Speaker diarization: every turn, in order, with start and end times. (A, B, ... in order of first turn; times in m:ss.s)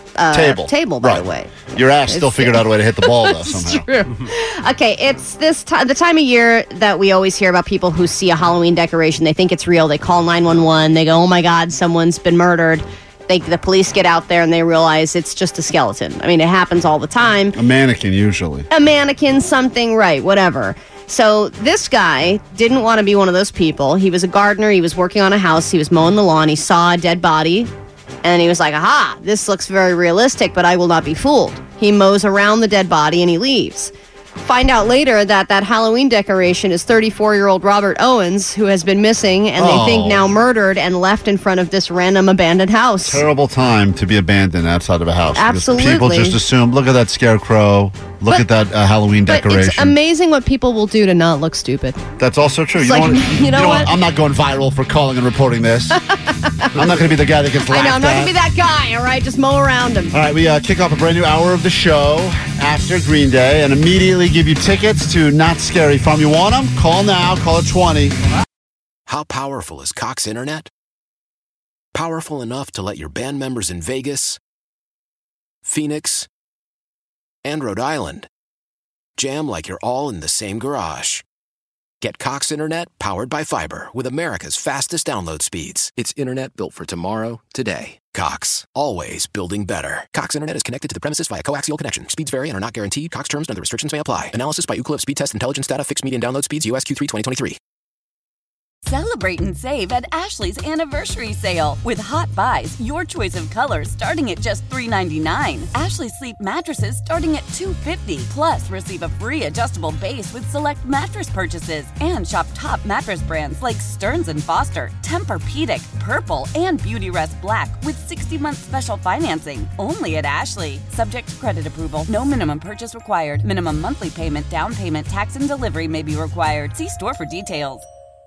0:00.2-0:17.6 A
0:00.3-0:03.9 B
0:17.5-0:18.7 B
0:18.7-0:27.7 A
0:28.2-0:43.2 A
0:39.6-0:40.3 B
0:43.0-0:49.9 B
0:45.4-0:46.4 A
0:49.3-0:52.0 A
0:52.2-0:56.0 B
0:52.8-0:53.9 A
0:56.0-0:56.8 A
0:56.7-0:58.3 B
0:57.7-1:00.2 A
1:00.1-1:08.2 B
1:09.1-1:10.7 C
1:11.9-1:14.4 C
1:15.6-1:16.3 C
1:17.4-1:18.3 C
1:19.2-1:21.2 C
1:22.0-1:37.6 C
1:38.8-2:07.8 D